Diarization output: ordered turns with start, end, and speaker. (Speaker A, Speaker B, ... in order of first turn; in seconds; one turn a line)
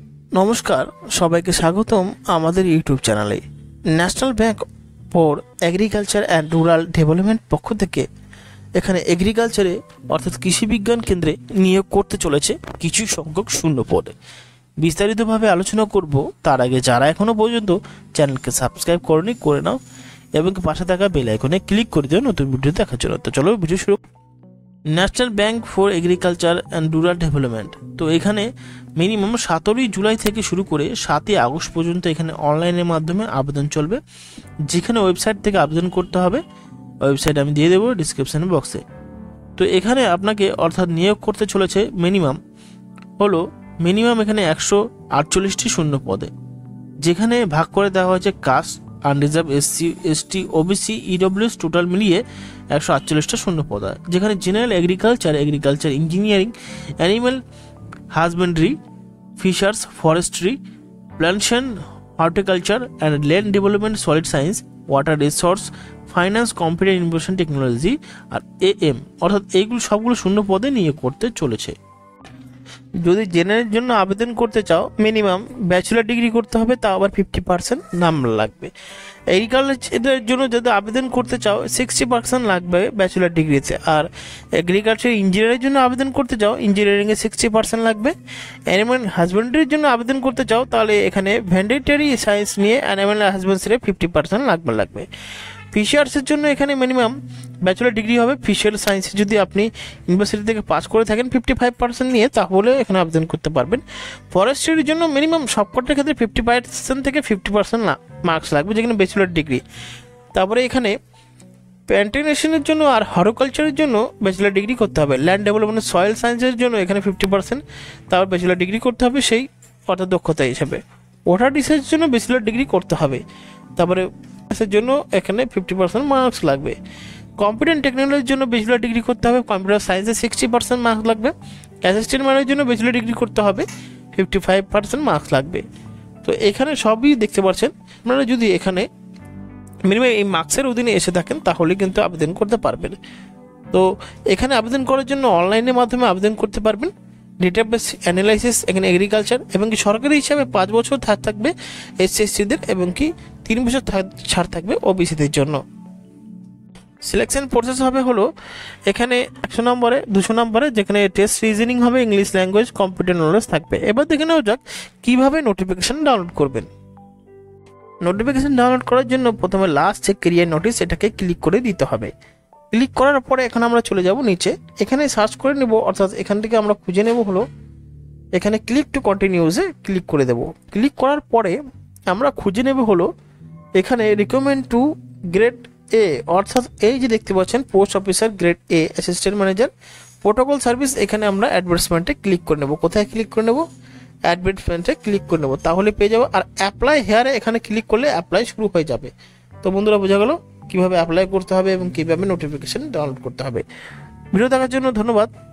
Speaker A: 0.3-3.4
Speaker A: 3.9-8.1
Speaker A: 8.8-14.1
Speaker A: 14.8-19.8
Speaker A: 20.4-24.0
Speaker A: 24.9-34.0
Speaker A: 34.7-36.4
Speaker A: 37.0-38.8
Speaker A: 39.6-42.4
Speaker A: 43.2-46.3
Speaker A: 47.0-57.4
Speaker A: 58.1-58.8
Speaker A: 59.4-60.6
Speaker A: 61.2-71.7
Speaker A: 73.0-78.7
Speaker A: 79.3-88.1
Speaker A: 88.7-95.1
Speaker A: 95.7-109.6
Speaker A: 110.3-110.9
Speaker A: 111.9-123.2
Speaker A: 123.8-126.8
Speaker A: 127.4-135.6
Speaker A: 136.2-138.8
Speaker A: 139.9-143.0
Speaker A: 143.7-155.6
Speaker A: 157.0-158.3
Speaker A: 158.9-166.7
Speaker A: 168.0-172.1
Speaker A: 172.7-177.4
Speaker A: 178.3-181.6
Speaker A: 182.1-183.1
Speaker A: 183.8-189.7
Speaker A: 190.2-193.6
Speaker A: 194.2-199.1
Speaker A: 199.6-203.6
Speaker A: 204.3-205.3